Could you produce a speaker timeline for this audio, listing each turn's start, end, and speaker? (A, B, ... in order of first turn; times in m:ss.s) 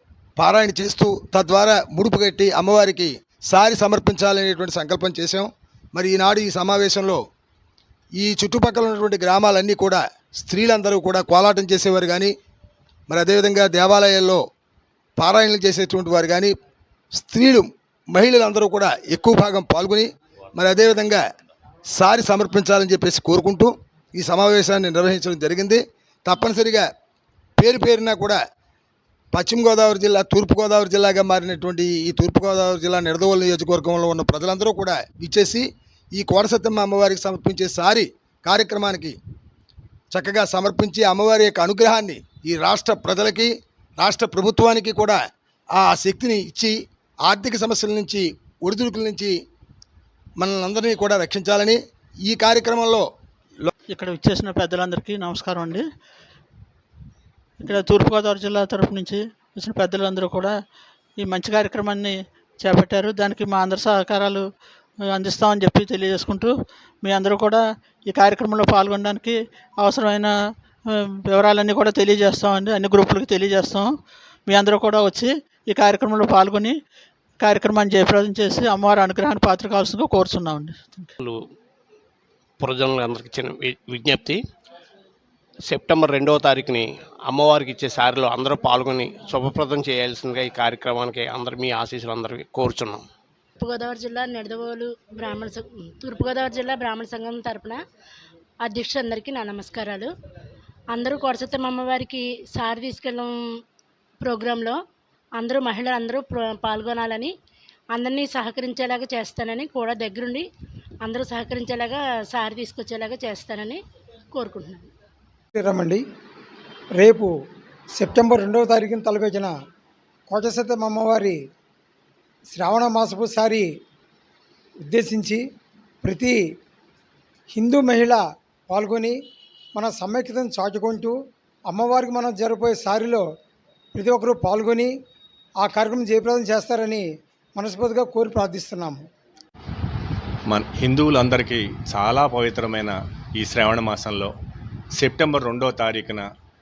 0:00.4-0:07.2 A
0:08.2-0:12.3 A
0:13.1-0:14.4 A
0:15.2-0:16.5 A
0:17.2-0:21.2 A
0:21.9-0:26.9 A
0:27.6-0:28.4 A
0:29.3-0:39.1 A
0:40.1-0:45.2 A
0:45.8-0:46.8 A
0:47.3-0:49.3 A
0:50.4-0:53.1 A
0:53.9-0:55.8 B
0:57.6-1:00.5 B
1:01.2-1:04.5 B
1:05.1-1:10.3 B
1:11.2-1:13.9 B
1:14.5-1:16.8 B
1:17.4-1:21.1 B
1:22.6-1:24.4 C
1:25.6-1:33.0 C
1:33.6-1:37.8 D
1:38.6-1:40.1 D
1:40.9-1:43.4 D
1:44.2-1:44.8 D
1:45.4-1:47.3 D
1:47.9-1:50.5 D
1:51.0-1:53.8 D
1:54.3-1:54.9 D
1:55.6-1:56.0 E
1:56.9-1:57.3 E
1:58.0-1:59.5 E
2:00.3-2:01.4 E
2:02.5-2:03.7 E
2:04.9-2:05.4 E
2:06.0-2:06.4 E
2:07.5-2:09.2 E
2:09.8-2:11.2 E
2:11.7-2:13.2 E
2:14.0-2:14.9 E
2:15.6-2:19.0 E
2:20.5-2:24.3 F
2:25.0-2:26.3 F